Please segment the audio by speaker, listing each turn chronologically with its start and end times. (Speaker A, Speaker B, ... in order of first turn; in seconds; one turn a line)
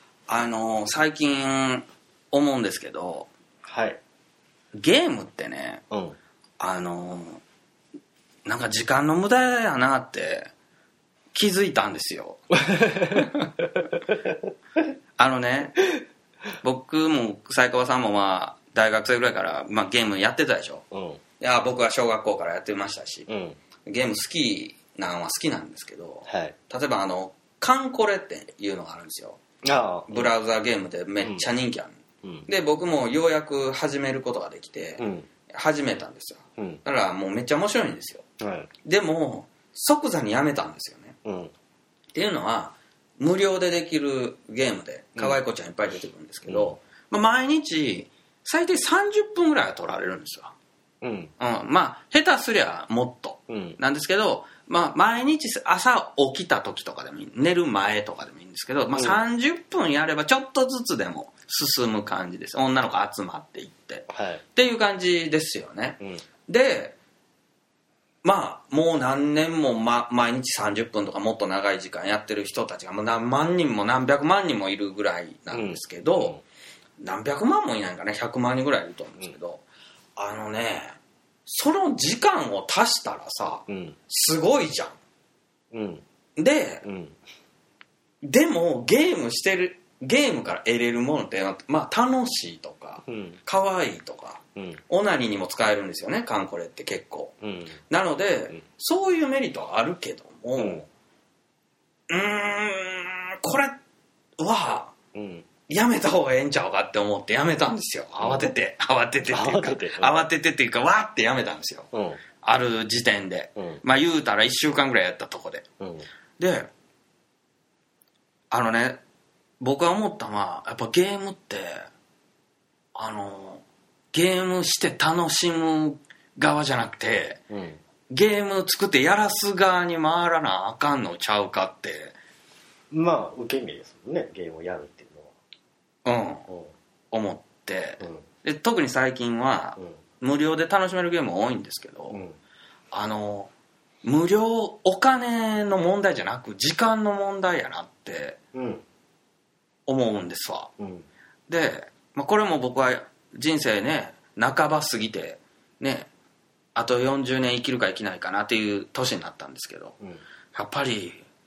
Speaker A: 0.3-3.3
Speaker B: 3.6-4.0
Speaker A: 4.8-5.8
Speaker B: 5.9-6.2
Speaker A: 6.6-7.4
Speaker A: 8.4-10.5
Speaker A: 11.3-13.5
Speaker B: 12.7-14.4
Speaker A: 15.2-15.8
Speaker A: 16.6-20.9
Speaker B: 20.9-21.2
Speaker A: 21.4-23.3
Speaker B: 23.3-23.6
Speaker A: 23.8-29.4
Speaker B: 26.3-26.6
Speaker B: 29.6-30.3
Speaker A: 30.1-38.2
Speaker B: 32.2-32.5
Speaker B: 35.0-35.3
Speaker B: 38.4-38.7
Speaker A: 38.9-41.2
Speaker B: 41.2-41.5
Speaker A: 42.1-50.5
Speaker B: 46.5-46.8
Speaker B: 51.0-51.3
Speaker A: 51.4-67.0
Speaker B: 53.5-53.8
Speaker B: 58.9-59.2
Speaker B: 64.1-64.4
Speaker A: 68.2-76.4
Speaker B: 75.5-76.4
Speaker A: 77.0-79.6
Speaker A: 80.2-85.0
Speaker B: 83.7-84.0
Speaker B: 85.7-86.0
Speaker A: 86.4-86.9
Speaker B: 86.8-87.2
Speaker A: 88.2-97.3
Speaker B: 93.1-93.4
Speaker B: 94.6-94.8
Speaker B: 97.4-97.8
Speaker A: 97.9-100.9
Speaker B: 100.6-100.8
Speaker A: 102.1-103.8
Speaker A: 104.4-105.0
Speaker B: 105.1-105.5
Speaker A: 105.7-115.7
Speaker B: 108.2-108.5
Speaker B: 109.3-110.3
Speaker B: 111.9-112.2
Speaker B: 113.6-113.8
Speaker B: 115.8-116.1
Speaker A: 116.4-116.7
Speaker A: 118.5-119.0
Speaker A: 119.6-121.9
Speaker A: 123.0-127.4
Speaker B: 127.5-127.8
Speaker A: 128.1-132.2
Speaker B: 132.9-135.3
Speaker A: 136.1-136.5
Speaker A: 137.1-142.2
Speaker B: 138.0-138.2
Speaker B: 142.1-142.4
Speaker A: 142.9-143.5
Speaker A: 144.0-148.4
Speaker B: 148.5-148.8
Speaker A: 149.9-150.7
Speaker B: 150.8-151.1
Speaker A: 151.5-156.1
Speaker A: 156.8-160.0
Speaker A: 160.5-161.2